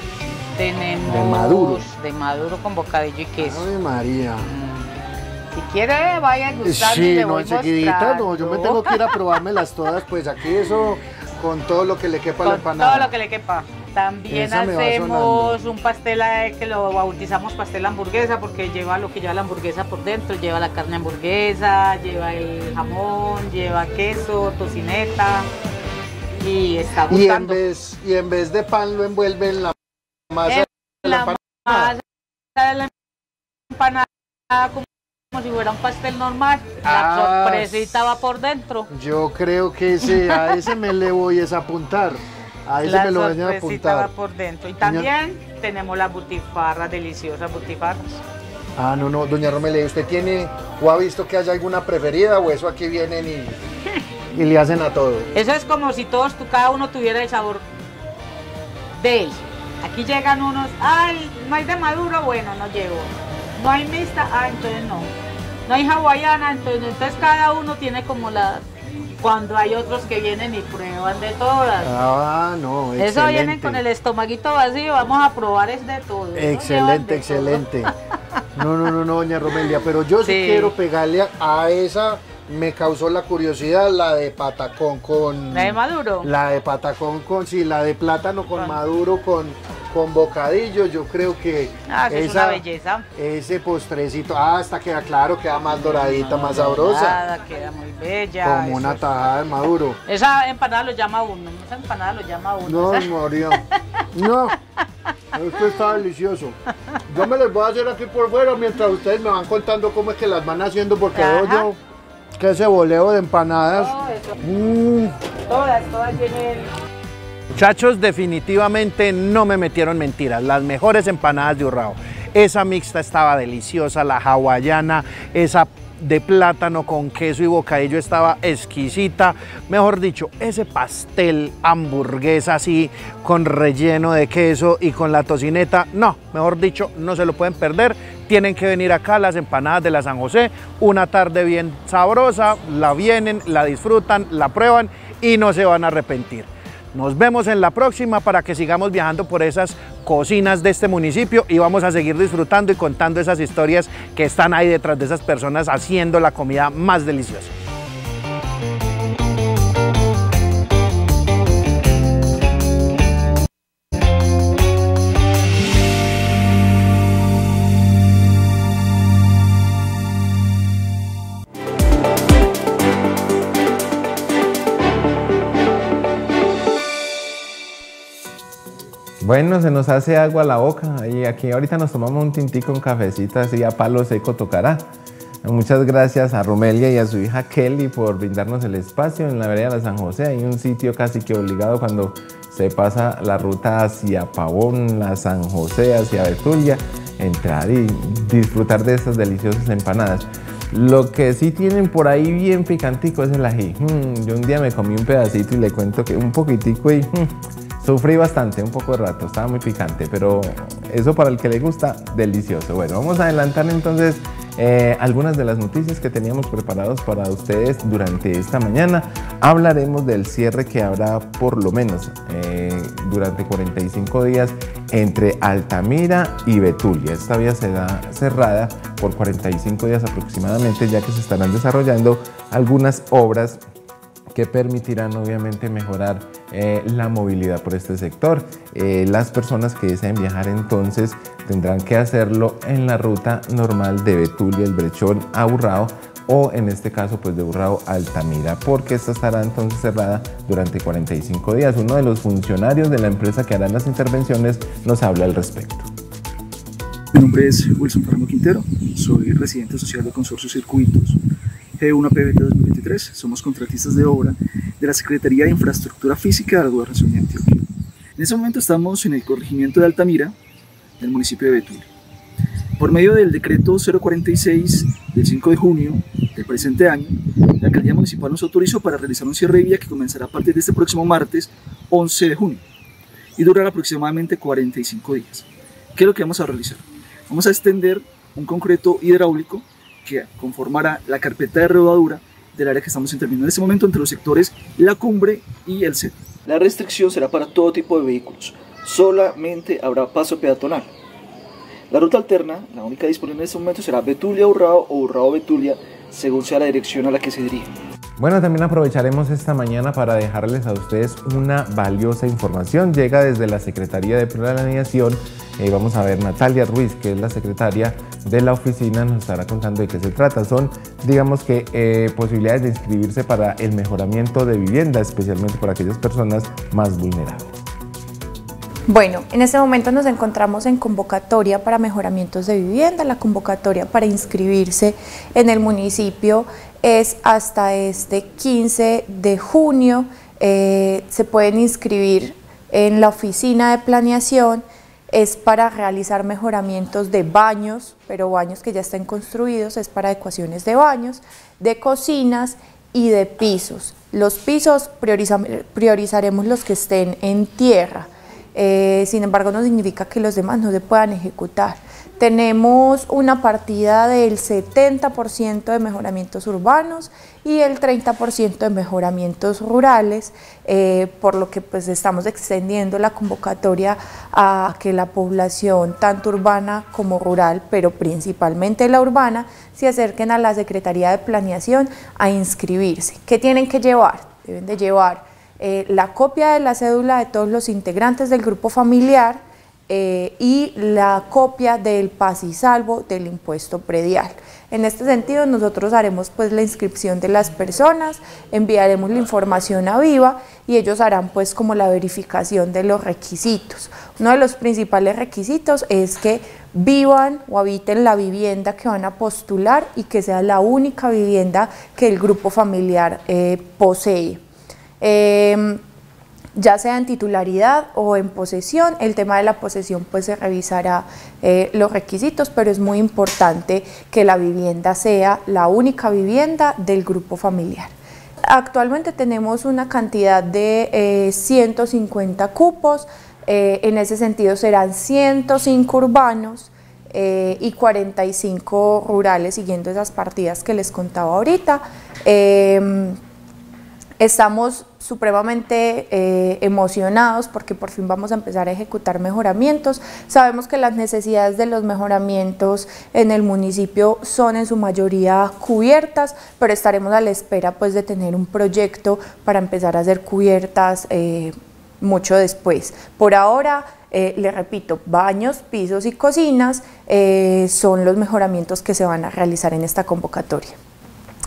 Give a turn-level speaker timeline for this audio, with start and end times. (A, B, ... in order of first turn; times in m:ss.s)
0:00.6-0:03.7 A
0:01.0-0:01.8 B
0:03.4-0:04.5 B
0:04.4-0:04.9 A
0:05.5-0:09.2 A
0:06.6-0:13.1 B
0:12.4-0:25.5 A
0:14.3-0:15.6 B
0:26.4-0:27.6 A
0:27.1-0:29.8 B
0:30.3-0:31.9 B
0:30.5-0:32.0 A
0:32.6-0:32.9 A
0:33.7-0:38.9 A
0:36.8-0:38.0 B
0:38.9-0:44.1 B
0:40.0-0:40.5 A
0:42.8-0:48.2 A
0:44.8-0:45.1 B
0:48.8-0:53.6 B
0:54.3-0:55.3 B
0:55.4-0:57.6 A
0:59.0-1:05.1 A
1:05.7-1:08.6 A
1:09.2-1:12.0 A
1:11.8-1:13.8 B
1:13.0-1:17.9 A
1:16.4-1:17.9 B
1:18.6-1:32.6 B
1:20.2-1:20.8 A
1:25.5-1:26.3 A
1:31.9-1:33.0 A
1:33.2-1:37.2 B
1:35.8-1:39.3 A
1:38.4-1:40.0 B
1:40.1-1:43.6 A
1:42.6-1:43.6 B
1:44.2-1:44.6 B
1:45.4-1:46.6 B
1:45.6-1:45.9 A
1:47.1-1:51.8 B
1:51.1-1:51.7 A
1:52.4-1:55.2 B
1:53.7-1:54.3 A
1:55.5-1:56.7 A
1:57.6-2:37.5 B
2:59.2-3:04.9 C
3:05.4-3:53.6 C
3:54.3-4:15.9 C
4:17.1-4:21.2 D
4:21.8-4:27.6 D
4:28.2-4:30.4 D
4:31.0-4:31.9 D
4:32.8-4:42.6 D
4:43.4-5:00.9 D
5:01.9-5:07.7 D
5:08.2-5:27.5 C
5:28.9-6:54.4 E
6:55.0-6:55.8 E
6:56.6-7:07.9 E
7:08.5-7:23.2 E
7:24.2-7:50.8 E